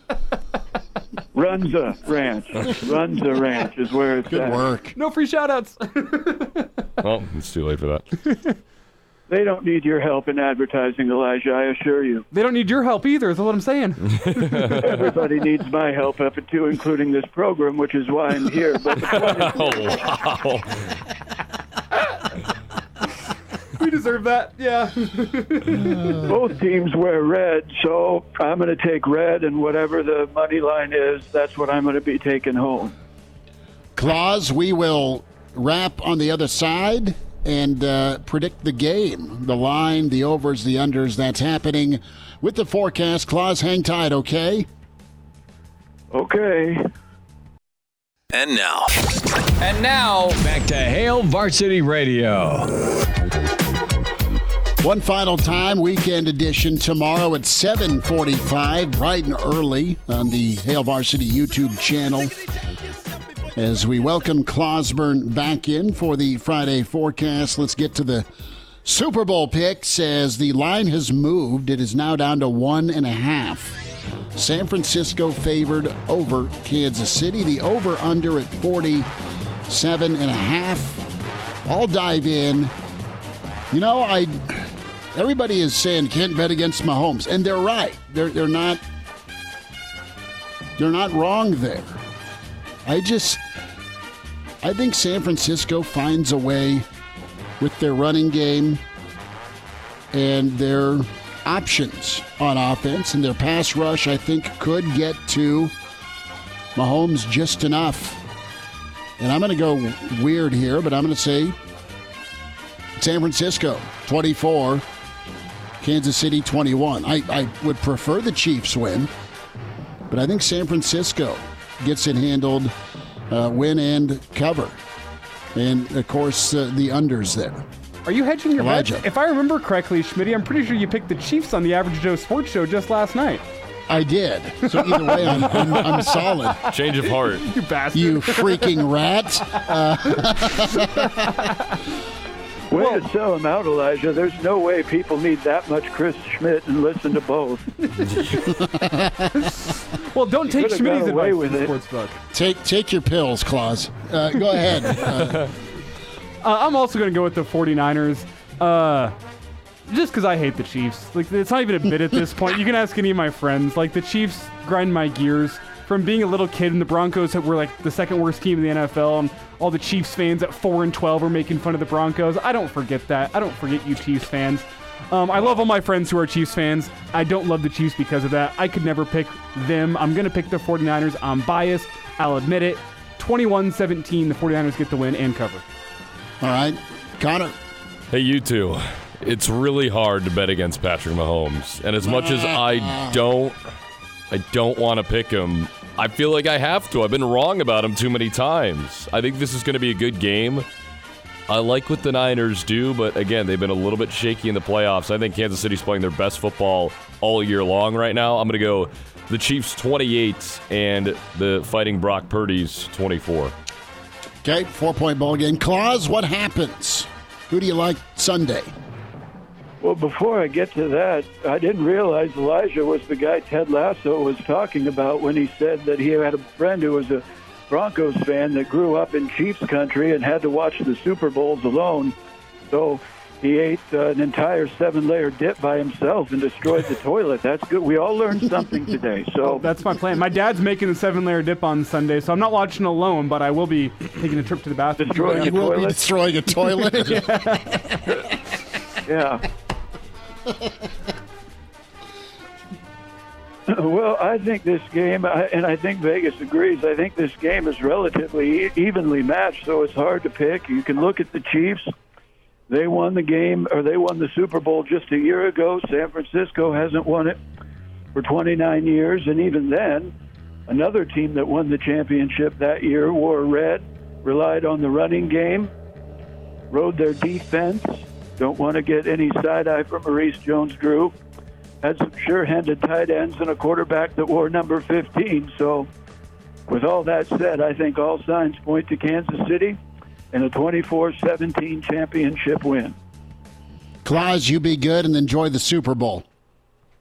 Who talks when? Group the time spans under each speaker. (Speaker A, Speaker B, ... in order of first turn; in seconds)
Speaker A: 1.3-4.6, 9.3-12.2, 14.8-20.0, 26.2-33.0, 46.1-46.8, 142.7-147.9, 150.5-151.7, 219.8-232.2, 232.7-239.6, 245.0-246.0, 249.1-249.4, 253.7-261.9, 262.7-267.4, 268.1-270.1, 270.7-275.7, 276.7-281.1, 281.8-285.9, 286.7-289.8, 290.3-292.9
Speaker B: 4.3-5.0, 34.0-44.7, 54.8-62.4, 63.5-68.3, 68.8-73.8, 74.3-79.1, 79.7-81.1, 81.7-82.7, 83.7-88.8, 90.8-92.0, 92.8-93.4, 94.6-96.9, 97.6-98.8, 100.1-105.7, 106.8-108.2, 109.2-111.6, 113.0-114.8, 115.8-119.1, 120.1-122.7, 123.3-124.8, 125.5-127.7, 128.6-129.1, 133.9-136.6, 137.9-141.4, 148.5-149.3, 152.3-155.5, 186.4-187.6, 192.0-193.2, 214.4-218.7, 245.2-248.1, 294.1-296.2
Speaker C: 5.0-6.7, 12.3-14.8, 23.8-26.2, 128.1-133.4, 134.7-136.2, 137.1-138.8, 139.5-141.8, 142.7-143.0, 148.1-148.4, 149.4-152.2, 156.4-159.1, 159.9-185.6, 239.4-245.8, 246.6-248.2
Speaker D: 7.0-8.1, 19.1-20.7, 136.7-137.5, 188.1-193.6, 194.3-200.7, 201.5-213.5
Speaker E: 48.3-48.9, 49.6-52.6